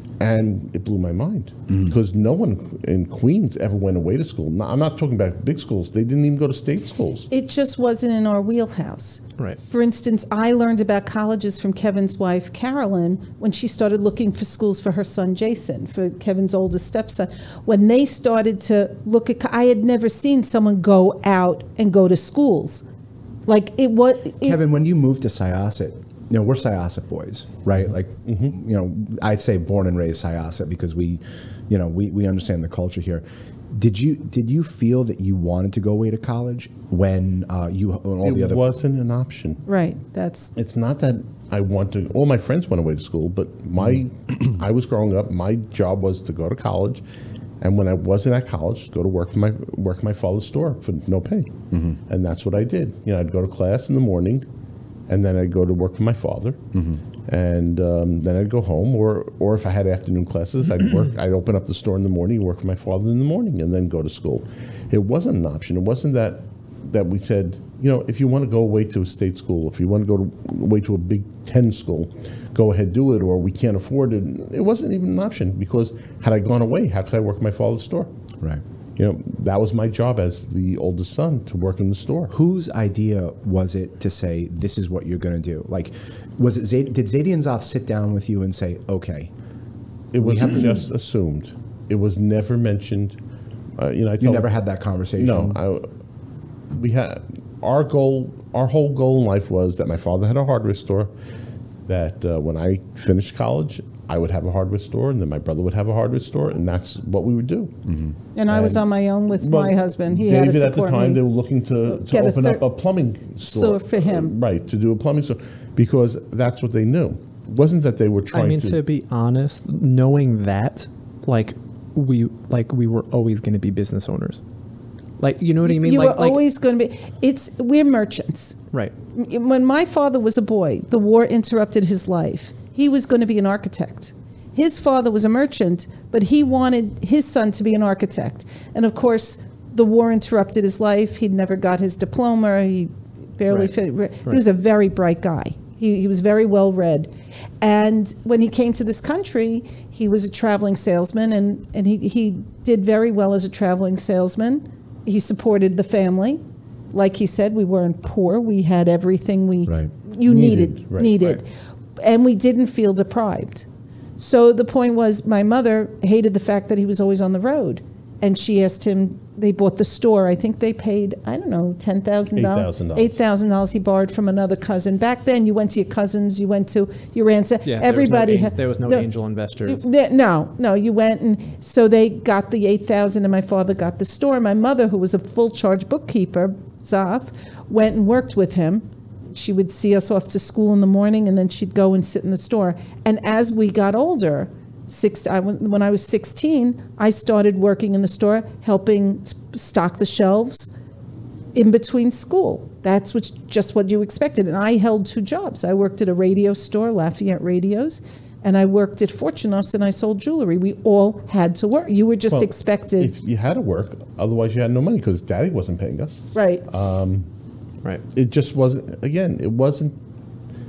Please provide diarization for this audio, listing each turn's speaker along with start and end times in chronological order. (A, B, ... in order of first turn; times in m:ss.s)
0:00.2-0:07.3 A
0:07.3-0:22.8 B
0:23.5-0:24.6 B
0:24.4-0:38.6 C
0:28.3-0:28.5 A
0:38.2-0:39.6 A
0:39.7-0:40.5 B
0:40.6-0:47.0 A
0:47.6-0:51.6 A
0:51.7-0:52.0 C
0:52.1-0:54.4 A
0:55.1-0:56.6 A
0:56.7-0:57.0 C
0:57.3-1:18.1 A
1:19.0-1:22.3 A
1:22.3-1:29.3 C
1:30.1-1:33.2 A
1:30.2-1:30.8 C
1:33.8-1:34.5 A
1:34.2-1:35.6 C
1:35.2-1:35.9 A
1:36.7-1:41.1 A
1:41.9-1:47.8 A
1:47.9-1:48.1 C
1:48.4-1:51.2 B
1:48.5-1:48.9 A
1:49.4-1:58.8 A
1:51.9-1:52.6 B
1:53.4-1:54.3 B
1:58.3-2:04.4 D
2:05.2-2:06.4 D
2:05.6-2:08.6 B
2:09.1-2:41.5 B
2:40.2-2:41.3 A
2:42.0-2:43.7 B
2:44.2-2:59.1 B
2:52.4-2:53.2 A
2:57.6-2:59.9 D
2:59.7-3:20.7 B
3:21.6-3:33.1 B
3:32.3-3:37.3 A
3:36.3-3:36.6 B
3:38.1-3:40.0 A